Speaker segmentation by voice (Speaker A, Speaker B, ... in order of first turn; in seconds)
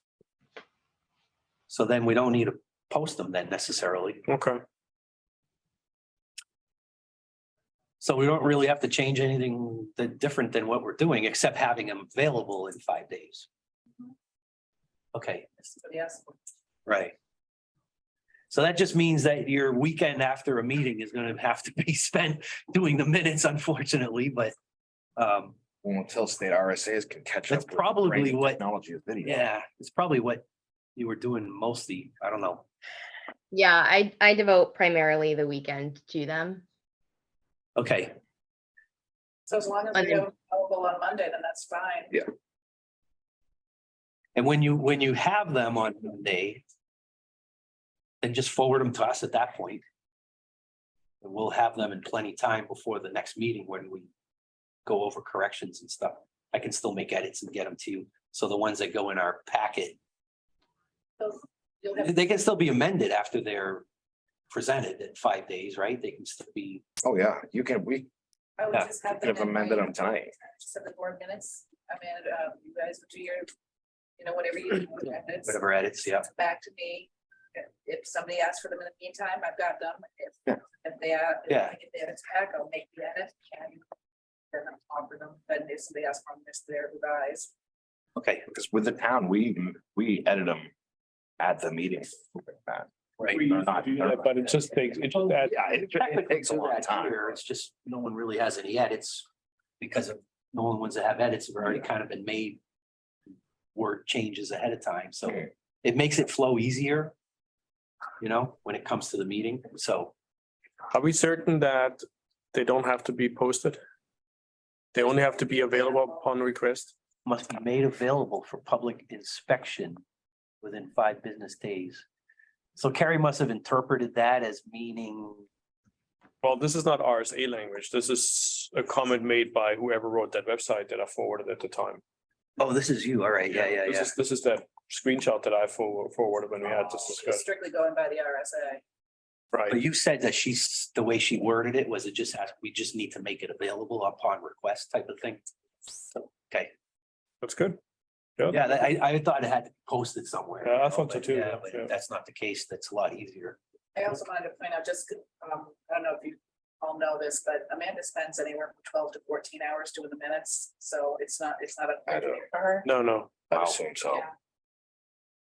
Speaker A: 1.7-4.2, 8.0-13.5, 15.1-15.5, 16.9-17.1, 18.5-24.5, 25.2-25.6, 27.5-28.6, 29.2-30.4, 30.9-32.7, 37.8-38.1, 44.4-46.6, 48.2-49.8, 51.2-54.1, 54.9-60.0, 62.0-63.8, 64.5-66.8, 75.5-76.2, 81.5-81.8, 88.2-88.4, 95.9-99.3, 99.8-102.6, 103.7-107.1, 108.2-110.1, 117.2-120.0, 120.6-122.0, 122.8-125.5, 132.6-134.1, 139.7-145.4, 146.1-146.7, 148.5-153.6, 163.5-163.8
Speaker B: 4.3-4.6, 93.3-95.5, 110.9-113.8, 114.9-116.9, 126.4-132.0, 133.5-137.4, 139.5-139.8, 147.4-147.8, 148.4-148.7, 150.6-151.9, 162.8-163.4
Speaker C: 15.6-16.3, 39.5-42.2, 61.2-62.3, 68.6-70.0, 70.6-73.5, 74.2-75.6, 76.2-83.8, 84.5-87.5, 115.1-116.2, 136.6-138.8, 153.9-162.9
Speaker D: 25.8-29.5, 67.0-68.1, 69.2-70.3, 88.5-90.7, 91.4-92.9, 93.5-94.3, 95.2-97.3, 162.1-162.4, 163.5-164.2
Speaker E: 33.5-36.6, 40.0-40.2